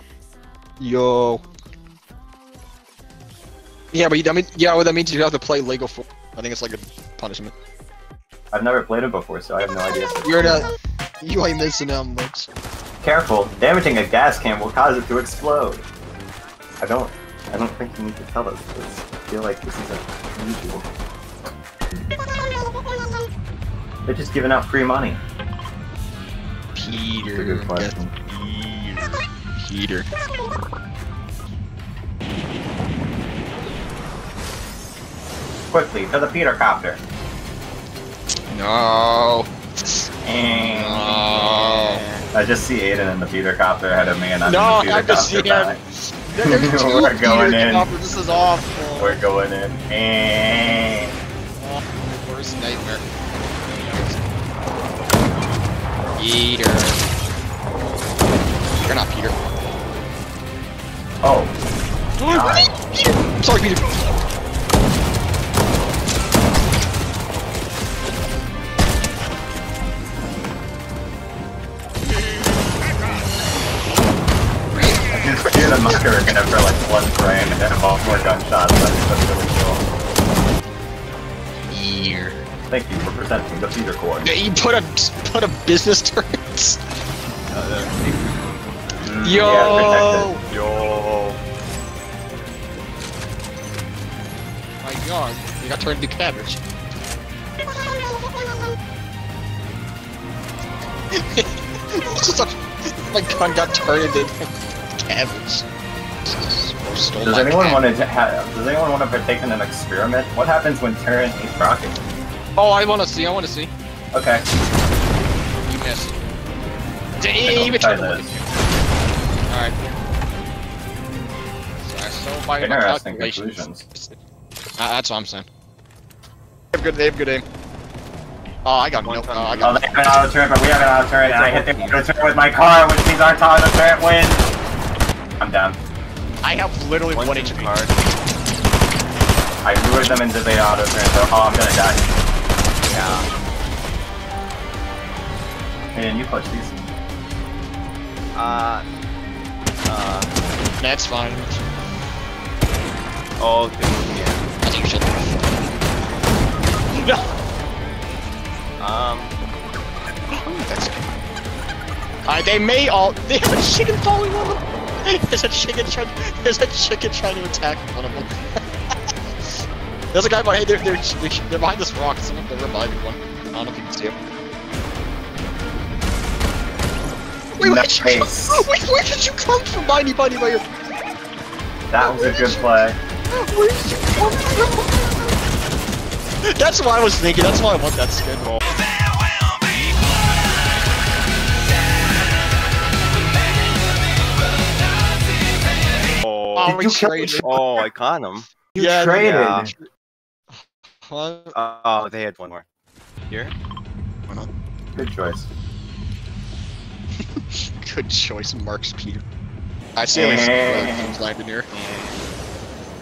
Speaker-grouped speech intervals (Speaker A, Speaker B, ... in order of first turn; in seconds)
Speaker A: 0.8-1.4, 3.9-7.5, 10.2-10.7, 11.2-12.5, 26.7-27.9, 29.6-30.1, 38.5-42.0, 44.4-49.2, 51.6-53.0, 53.7-54.2, 56.1-57.0, 58.8-59.3, 62.2-64.0, 74.7-76.1, 81.7-82.4, 84.2-86.8, 89.2-90.4, 94.8-96.6, 101.1-105.7, 106.2-107.9, 112.5-113.7, 115.6-116.2, 117.2-118.5, 119.5-119.8, 121.8-124.2, 124.8-125.5, 126.7-127.4, 128.6-129.8, 136.4-137.7, 150.8-151.6, 154.6-155.5, 156.9-157.3, 160.3-161.1, 162.2-168.3, 170.1-174.2, 177.6-180.7, 182.0-185.3, 186.4-188.6, 196.6-197.6, 198.7-199.8, 201.1-201.5, 207.4-209.2, 209.9-211.7
Speaker B: 8.5-10.7, 13.0-15.9, 16.8-20.9, 24.1-25.2, 27.3-28.1, 35.7-37.0, 40.2-45.8, 46.4-47.9, 49.0-51.1, 61.2-61.5, 62.2-62.7, 75.1-79.8, 82.7-84.3, 89.0-90.3, 107.2-112.0, 114.1-114.4, 117.4-118.3, 122.6-123.8, 129.6-134.4, 135.4-135.8, 139.6-142.1, 145.9-146.8, 177.6-178.7, 181.9-183.0, 196.6-197.5, 198.8-199.7, 204.9-205.5, 210.1-211.2
Speaker C: 28.3-29.2, 41.5-42.2, 87.5-91.4, 129.0-129.8, 131.2-132.0, 137.1-138.0, 142.9-143.3, 148.3-148.8, 149.8-150.3, 153.4-154.4, 158.8-159.3, 196.2-196.8, 197.4-198.5, 199.2-199.7, 201.5-202.7, 203.3-203.5, 211.7-212.2